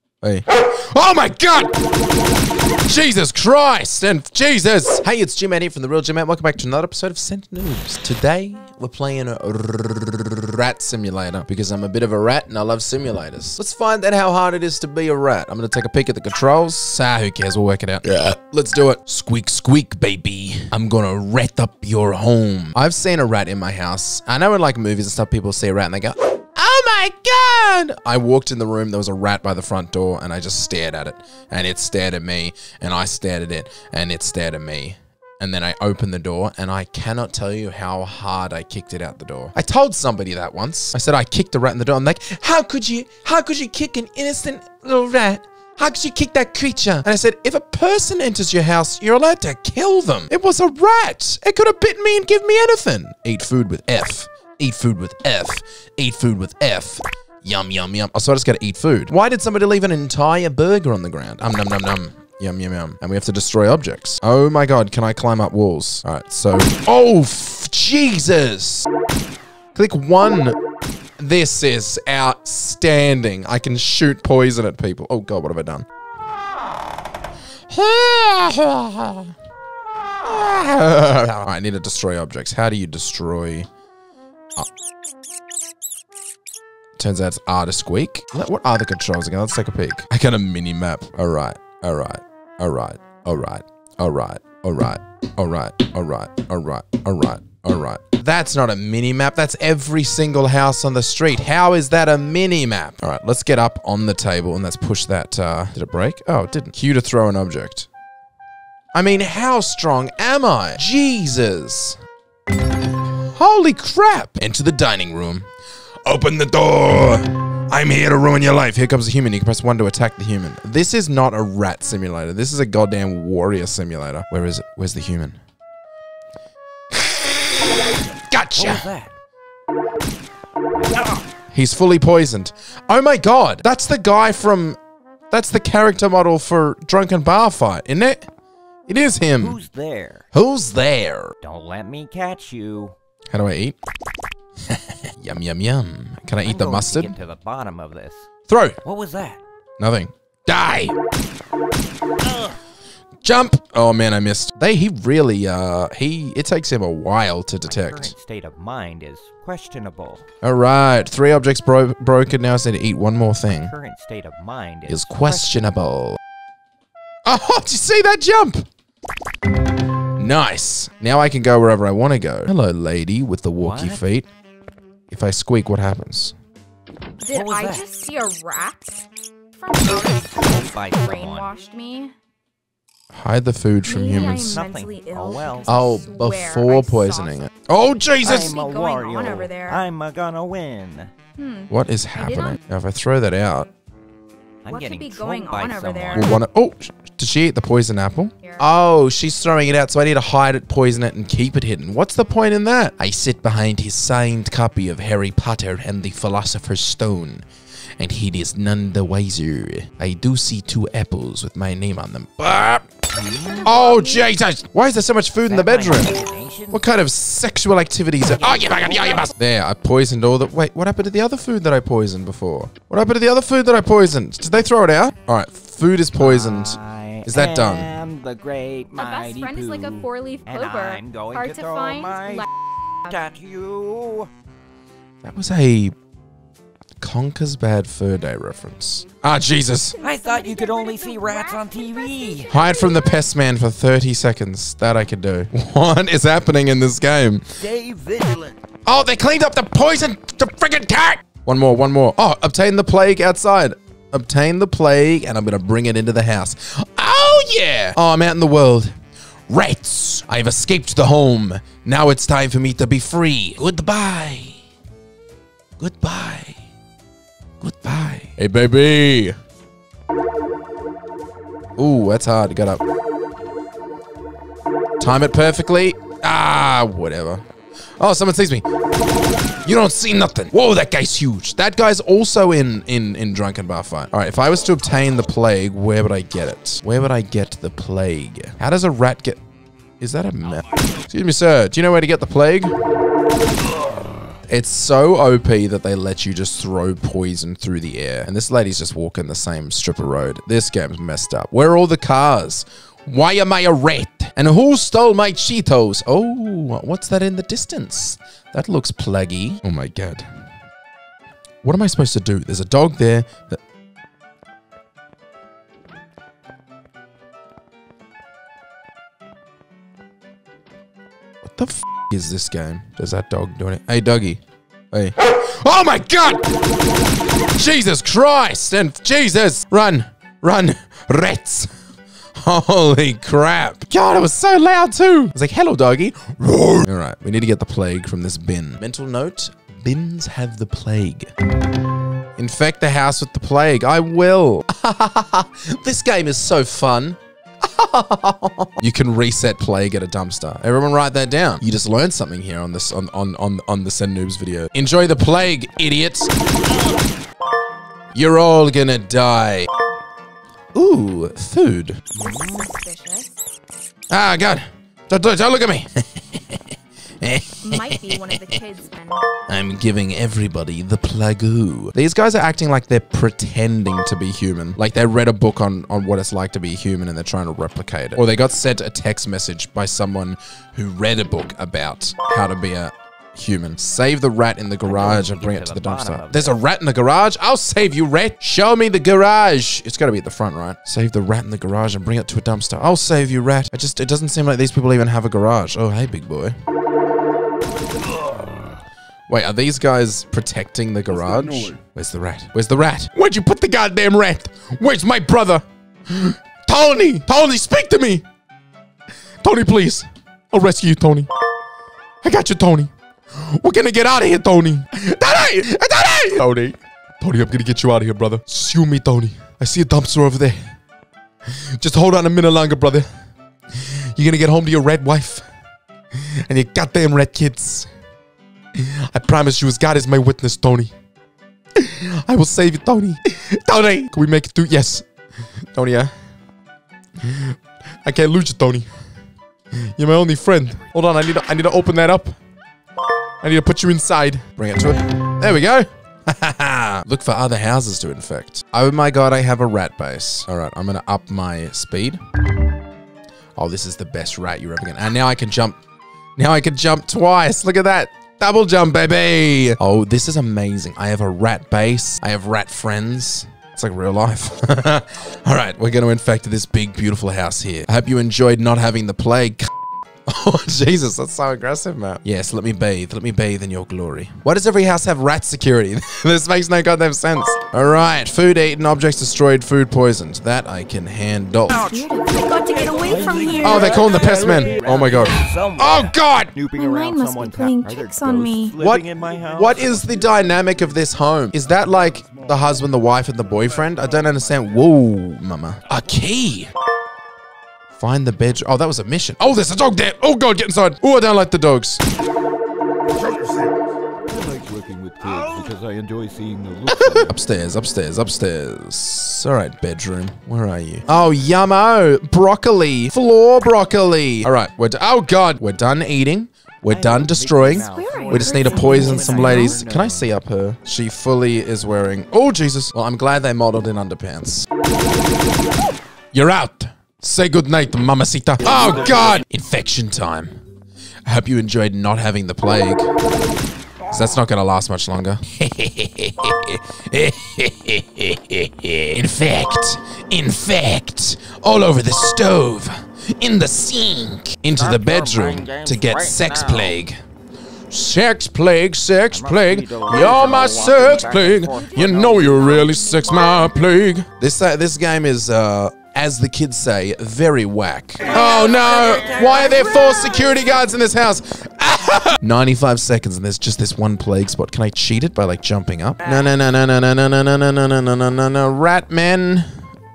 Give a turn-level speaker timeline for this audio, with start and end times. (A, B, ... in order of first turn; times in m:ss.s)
0:00.2-0:01.8 A
0:02.8-1:08.9 A
1:09.8-1:10.6 A
1:11.2-1:15.9 A
1:17.7-1:19.3 A
1:20.2-1:23.7 A
1:27.0-1:47.9 A
1:48.9-1:52.0 A
1:53.3-1:55.5 A
1:56.0-2:05.4 A
2:06.9-2:08.9 A
2:08.6-2:09.1 B
2:10.8-2:11.2 B
2:11.5-2:14.8 A
2:15.3-2:18.3 A
2:18.9-2:19.6 A
2:19.4-2:20.3 B
2:20.3-2:21.3 A
2:21.4-2:23.0 B
2:23.3-2:23.8 A
2:24.7-2:27.2 A
2:26.4-2:28.3 B
2:28.5-2:28.8 A
2:28.8-2:29.4 B
2:29.8-2:31.0 A
2:33.2-2:38.1 A
2:37.6-2:40.2 B
2:40.4-2:43.7 A
2:43.5-2:45.6 B
2:44.9-2:46.2 A
2:47.3-2:48.7 A
2:50.2-2:54.3 A
2:53.6-2:54.0 B
2:55.1-2:56.4 A
2:57.2-2:59.1 C
2:57.3-2:57.8 B
2:59.6-3:02.1 C
3:00.4-3:01.5 B
3:03.1-3:04.6 A
3:03.8-3:07.5 C
3:04.4-3:05.7 B
3:05.7-3:08.6 A
3:08.2-3:11.1 B
3:08.3-3:09.8 C
3:11.4-3:12.6 C
3:11.7-3:13.7 A
3:14.6-3:16.4 B
3:14.7-3:16.4 C
3:16.1-3:27.4 A
3:28.0-3:32.9 A
3:33.1-3:33.8 B
3:33.6-3:36.2 A
3:33.7-3:34.3 C
3:35.5-3:36.8 B
3:36.7-3:47.9 A
3:38.4-3:39.3 B
3:39.0-3:39.3 C
3:46.1-3:52.5 B
3:49.0-3:52.5 C
3:53.1-3:54.3 B
3:55.2-3:56.0 A
3:57.0-4:00.0 A
3:59.9-4:02.4 C
4:00.0-4:02.5 B
4:02.5-4:07.4 A
4:07.6-4:08.6 B
4:08.9-4:18.9 A
4:19.5-4:24.6 A
4:25.8-4:26.6 A
4:27.6-4:29.4 A
4:31.8-4:32.8 A
4:35.0-4:37.4 A
4:38.0-4:38.7 A
4:39.6-4:49.4 A
4:50.0-4:52.7 A
4:54.5-5:10.3 A
5:11.6-5:13.6 A
5:21.4-5:24.4 A
5:24.9-5:26.6 A
5:27.4-5:31.7 A
5:32.4-5:41.3 A
5:42.4-5:56.3 A
5:58.1-5:59.7 A
6:00.8-6:02.1 A
6:02.2-6:02.7 B
6:02.2-6:03.3 C
6:04.1-6:08.6 A
6:07.6-6:09.2 C
6:09.5-6:36.6 A
6:24.8-6:26.6 B
6:39.3-6:48.2 A
6:49.4-6:51.3 A
6:52.2-7:00.6 A
7:01.8-7:03.1 A
7:03.8-7:05.5 A
7:06.2-7:07.9 A
7:08.8-7:10.9 A
7:11.8-7:15.1 A
7:15.7-7:16.1 A
7:17.2-7:18.9 A
7:19.8-7:22.4 A
7:23.4-7:32.2 A
7:33.6-7:35.8 A
7:36.4-7:49.7 A
7:50.3-8:01.9 A
8:01.7-8:04.8 C
8:02.6-8:09.9 B
8:03.6-8:06.5 A
8:06.8-8:08.8 C
8:08.8-8:16.7 A
8:17.9-8:22.0 A
8:24.3-8:27.3 B
8:26.9-8:44.7 A
8:36.9-8:40.3 B
8:37.8-8:39.8 C
8:46.3-8:50.6 A
8:51.3-8:53.1 A
8:54.1-9:07.2 A
9:04.8-9:07.0 B
9:07.9-9:29.7 A
9:09.3-9:12.5 B
9:11.6-9:13.9 C
9:18.3-9:20.6 B
9:26.2-9:26.6 B